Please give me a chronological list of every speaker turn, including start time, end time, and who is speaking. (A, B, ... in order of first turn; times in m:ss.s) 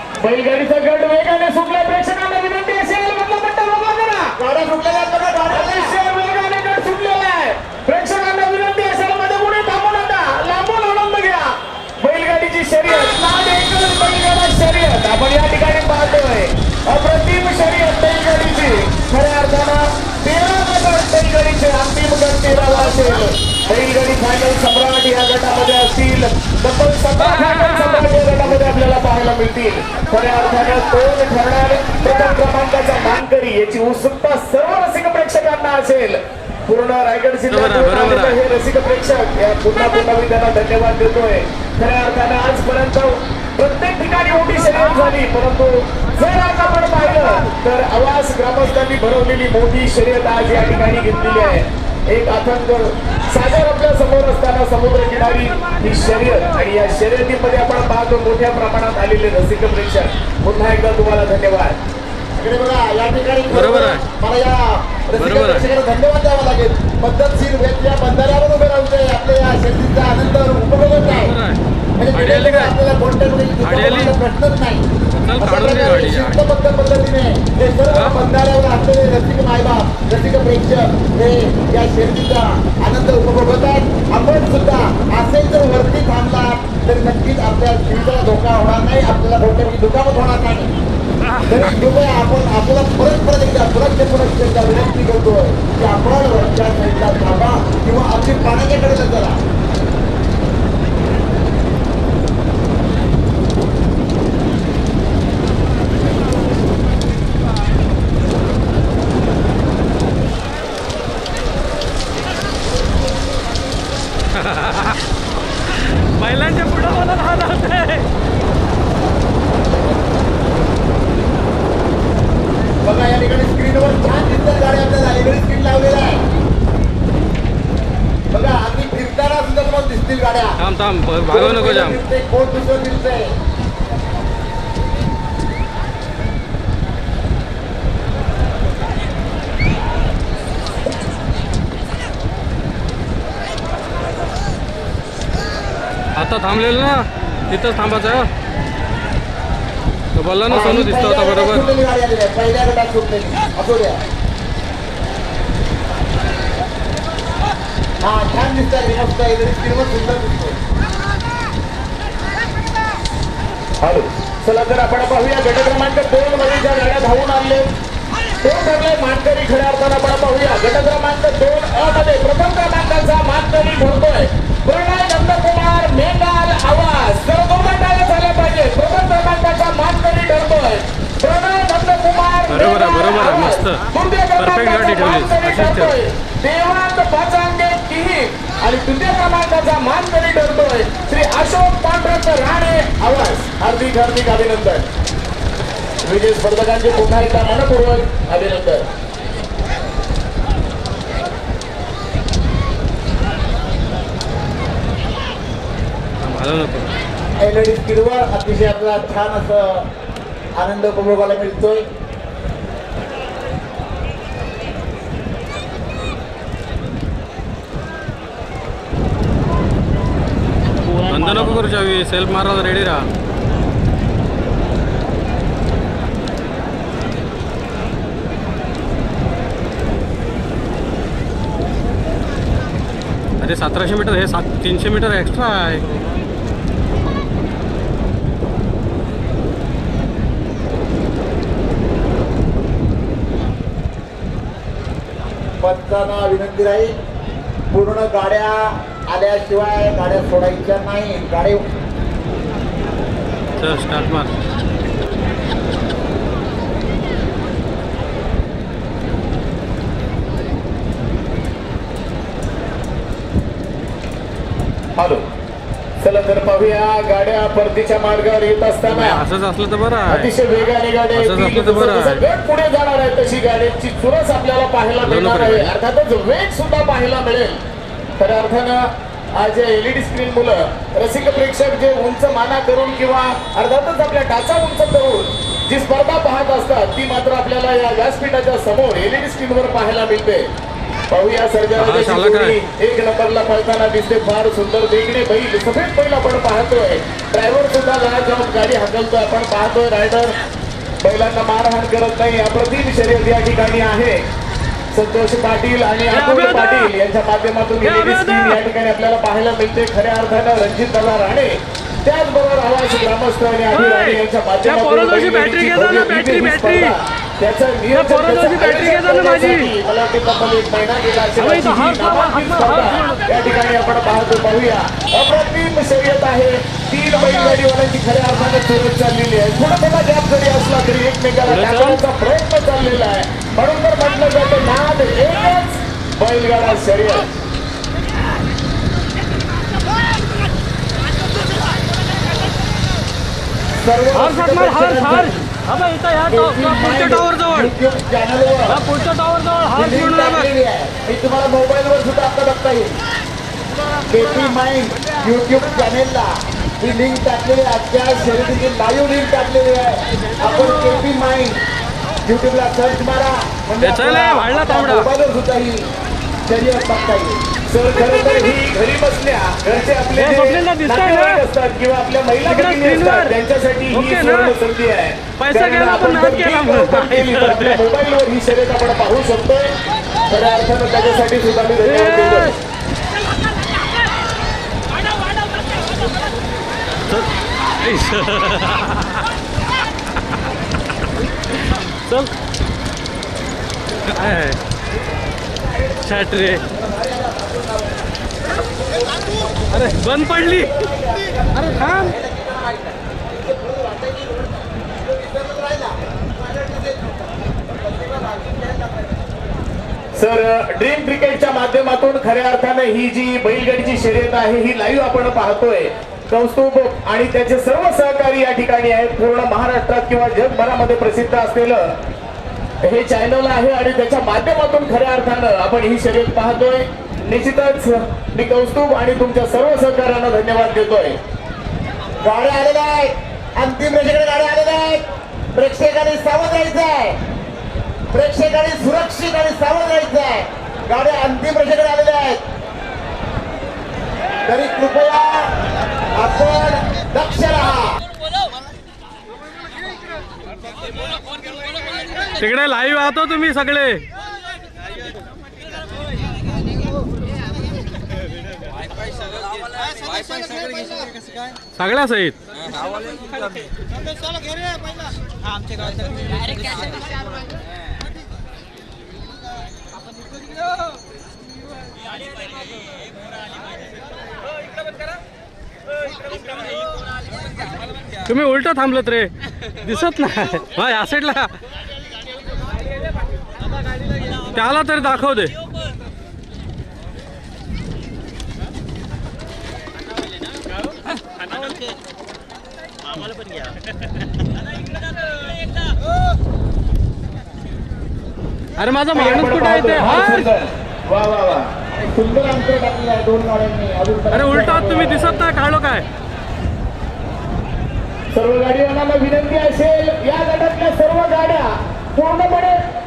0:00.2-0:04.3 A
0:04.4-0:06.0 B
0:05.5-1:01.8 A
0:27.3-0:28.0 C
0:37.5-0:38.4 C
0:55.2-0:56.6 C
1:02.3-1:11.3 B
1:03.5-1:04.0 C
1:05.2-1:05.7 C
1:11.1-1:11.6 C
1:12.0-1:14.8 B
1:12.1-1:12.8 C
1:13.6-1:14.1 C
1:15.1-1:16.4 C
1:15.4-1:30.7 B
1:17.9-1:18.2 C
1:31.4-1:39.4 B
1:54.3-1:55.0 C
1:56.0-1:58.1 C
2:02.8-2:06.2 B
2:08.3-2:10.6 B
2:10.6-2:12.0 C
2:11.3-2:13.3 B
2:26.2-2:28.3 C
2:30.2-2:31.7 C
2:30.5-2:34.0 B
2:38.0-2:40.6 B
2:43.8-2:47.7 A
2:48.4-3:14.9 A
3:02.5-3:03.9 C
3:04.4-3:06.0 C
3:16.0-3:18.8 A
3:26.2-3:26.9 C
3:27.4-3:29.9 B
3:30.6-3:31.9 B
3:41.0-3:43.1 C
3:53.4-3:55.8 C
4:05.6-4:07.0 B
4:07.7-4:11.7 B
4:13.6-4:14.3 C
4:25.0-4:25.2 A
4:26.0-4:29.2 A
4:28.8-4:30.3 C
4:30.1-4:37.6 A
4:31.1-4:32.2 C
4:35.0-4:35.7 C
4:38.2-4:50.5 A
4:51.1-5:00.3 A
4:51.8-4:52.6 C
5:01.0-5:04.2 A
5:04.9-5:37.3 A
5:06.1-5:06.9 C
5:07.8-5:08.6 C
5:13.7-5:16.9 C
5:17.9-5:19.7 C
5:21.4-5:23.2 C
5:31.5-5:32.0 C
5:43.8-5:45.5 B
5:44.1-5:47.7 C
5:46.3-5:48.8 B
5:48.7-5:50.5 C
5:49.7-5:52.9 B
5:54.1-6:01.6 B
6:00.4-6:01.0 C
6:02.2-6:05.8 B
6:03.8-6:05.1 C
6:06.4-6:07.4 B
6:07.7-6:19.7 A
6:10.2-6:11.4 C
6:12.4-6:13.3 C
6:13.9-6:14.5 C
6:15.4-6:17.8 C
6:20.3-6:22.6 A
6:21.8-6:22.6 C
6:27.1-6:29.2 C
6:31.5-6:32.3 C
6:34.1-6:34.6 C
6:36.0-6:36.6 C
6:36.4-6:49.3 B
6:39.7-6:40.8 C
6:41.5-6:42.1 C
6:50.1-7:01.9 A
7:02.8-7:11.2 A
7:12.2-7:15.0 B
7:15.5-7:17.2 B
7:18.1-7:22.4 B
7:24.4-7:25.5 B
7:26.2-7:28.0 B
7:32.3-7:34.0 C
7:41.8-7:42.4 C
7:58.2-8:01.6 C
8:04.4-8:05.5 C
8:18.8-8:20.5 C
8:19.1-8:21.7 A
8:21.9-8:25.5 B
8:24.3-8:26.0 C
8:28.3-8:32.8 A